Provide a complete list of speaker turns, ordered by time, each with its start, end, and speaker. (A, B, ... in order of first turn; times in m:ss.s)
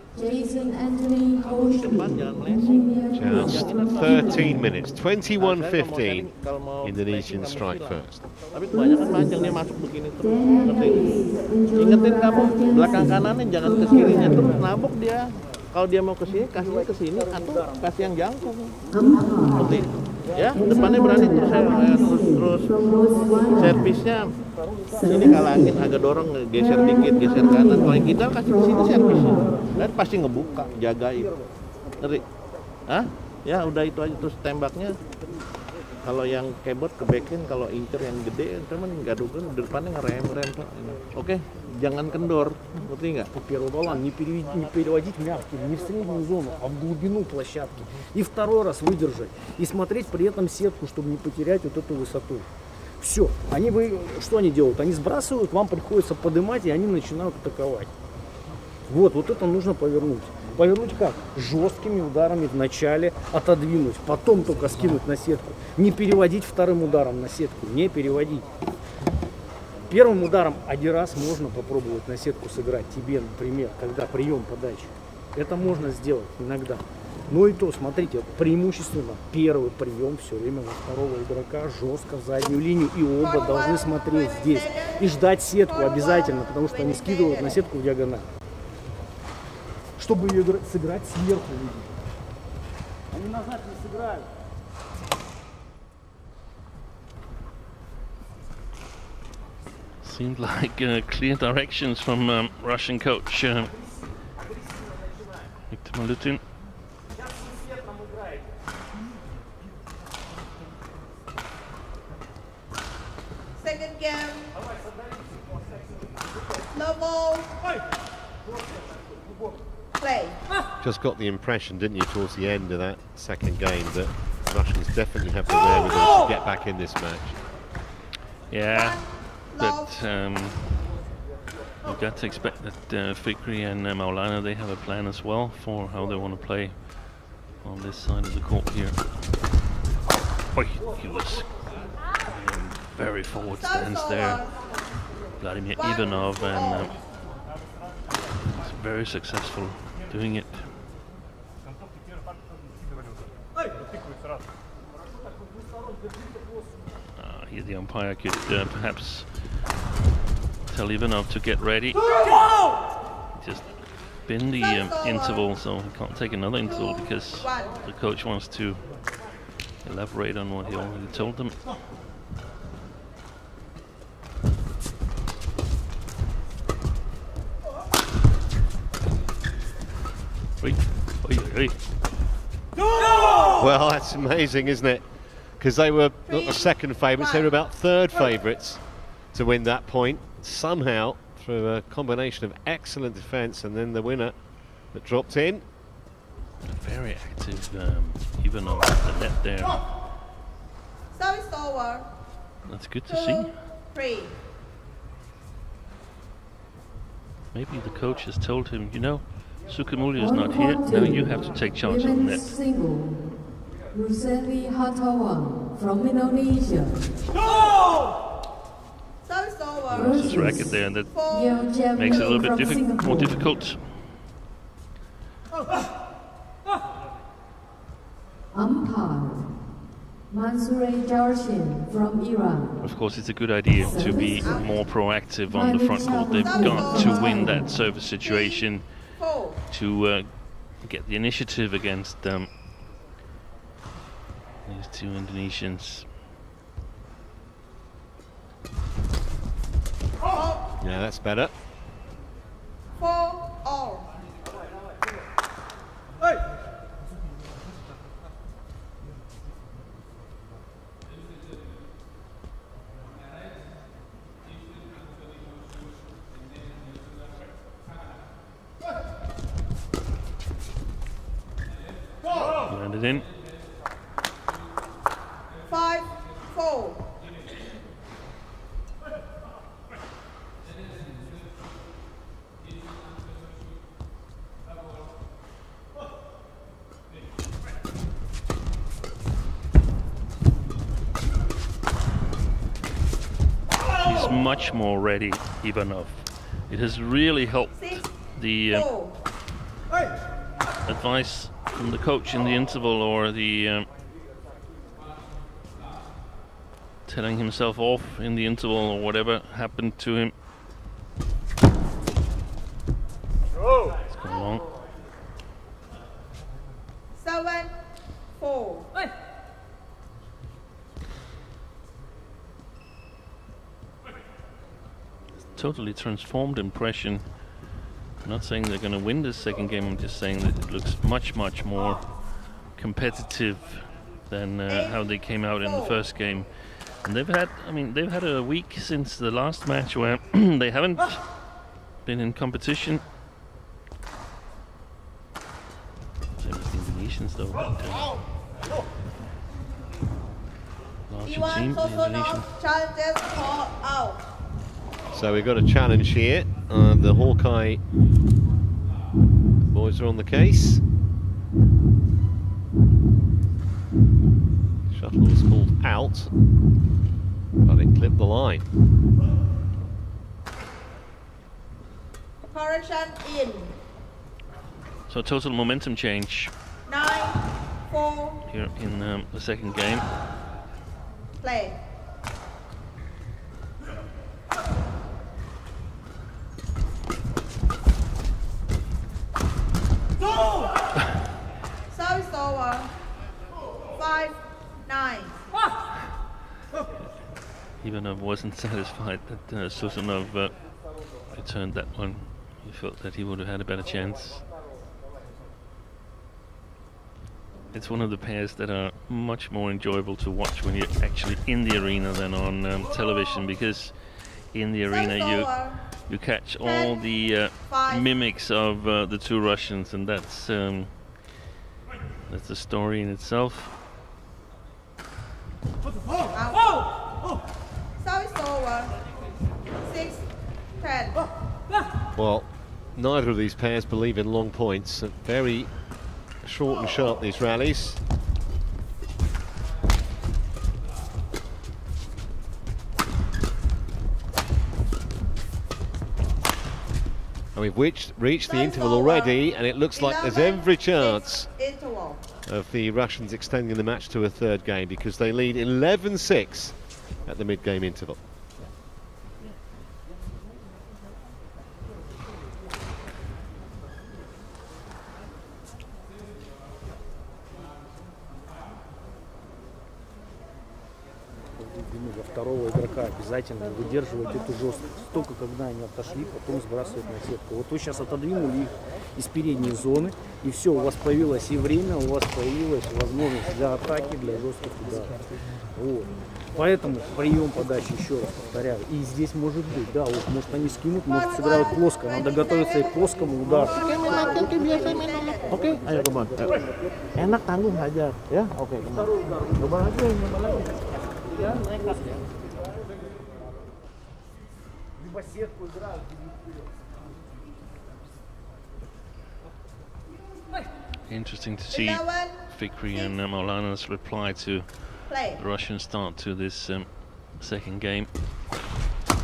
0:00.1-0:04.5 A
0:01.4-0:04.6 B
0:03.1-0:08.2 C
0:05.4-0:24.3 B
0:08.8-0:09.5 A
0:10.3-0:14.5 A
0:18.9-0:19.8 A
0:20.5-0:23.9 A
0:24.9-0:31.4 B
0:25.0-0:25.7 A
0:26.6-0:28.1 A
0:28.7-0:29.4 A
0:32.0-0:32.2 B
0:32.9-0:34.9 B
0:36.0-0:43.3 B
0:43.3-0:52.5 D
0:53.0-0:57.9 D
0:58.9-1:08.5 D
1:09.9-1:28.3 D
1:23.2-1:27.6 E
1:30.0-1:31.9 D
1:33.1-1:34.3 D
1:40.0-1:43.8 F
1:45.7-1:46.4 F
1:53.6-1:54.6 E
1:56.7-1:57.6 E
2:00.0-2:00.4 E
2:00.8-2:07.4 C
2:08.5-2:10.6 F
2:08.7-2:09.9 E
2:11.8-2:19.0 F
2:20.5-2:21.6 F
2:22.2-2:24.5 F
2:23.6-2:24.5 E
2:25.4-2:26.9 F
2:25.8-2:26.9 E
2:28.5-2:30.6 F
2:37.2-2:39.5 F
2:40.7-2:42.5 F
2:43.3-2:49.0 F
2:44.5-2:45.4 E
2:46.6-2:47.8 E
2:49.8-2:51.6 F
3:00.6-3:01.8 F
3:03.5-3:05.0 C
3:05.6-3:08.8 C
3:06.3-3:07.5 E
3:09.3-3:14.4 C
3:14.9-3:15.6 C
3:16.6-3:19.8 F
3:21.1-3:22.1 E
3:22.6-3:23.6 F
3:23.1-3:24.3 E
3:27.5-3:32.4 F
3:30.2-3:33.3 A
3:33.9-3:37.2 A
3:39.2-3:40.3 E
3:39.9-3:41.1 F
3:39.9-3:43.4 A
3:41.1-3:42.4 E
3:41.9-3:43.8 F
3:48.5-3:49.5 A
3:50.3-3:52.8 A
3:52.8-3:59.1 F
3:53.8-3:54.6 A
3:54.4-3:54.8 E
3:55.5-3:57.7 A
3:56.0-3:57.5 E
3:58.2-3:59.6 E
3:59.7-4:02.5 F
4:04.6-4:06.1 F
4:10.3-4:10.6 E
4:10.8-4:11.5 C
4:13.0-4:14.1 E
4:32.6-4:33.3 F
4:35.7-4:37.0 E
4:54.0-4:58.9 F
4:57.8-4:58.1 E
4:58.7-4:59.1 E
5:00.8-5:03.9 F
5:07.0-5:10.3 F
5:14.1-5:14.7 F
5:17.2-5:17.8 E
5:18.4-5:18.9 E
5:25.5-5:27.5 F
5:28.2-5:36.5 F
5:34.7-5:36.0 E
5:37.0-5:41.2 F
5:42.0-5:43.0 F
5:46.4-5:48.2 F
5:51.1-5:52.4 F
5:51.2-5:54.2 E
5:55.1-5:57.8 C
5:59.7-6:00.8 C
6:04.9-6:06.3 C
6:07.6-6:08.6 C
6:12.5-6:13.7 E
6:15.1-6:16.5 F
6:16.9-6:18.4 E
6:18.4-6:20.0 F
6:21.4-6:21.8 E
6:31.9-6:32.9 E
6:33.9-6:35.4 E
6:37.8-6:44.5 F
6:47.7-7:01.2 F
6:54.9-6:55.8 E
6:56.6-6:58.1 E
7:02.3-7:03.7 F
7:06.3-7:06.9 E
7:08.0-7:09.0 E
7:09.8-7:10.2 E
7:10.8-7:11.2 E
7:12.2-7:15.7 C
7:16.4-7:18.0 C
7:27.5-7:31.5 C
7:28.4-7:29.4 E
7:29.9-7:32.2 E
7:32.4-7:38.2 C
7:51.6-8:13.9 D
8:11.3-8:13.0 E
8:13.6-8:16.6 B
8:13.9-8:15.6 E
8:17.1-8:22.2 B
8:31.1-8:38.1 F
8:31.7-8:33.1 E
8:35.1-8:35.4 E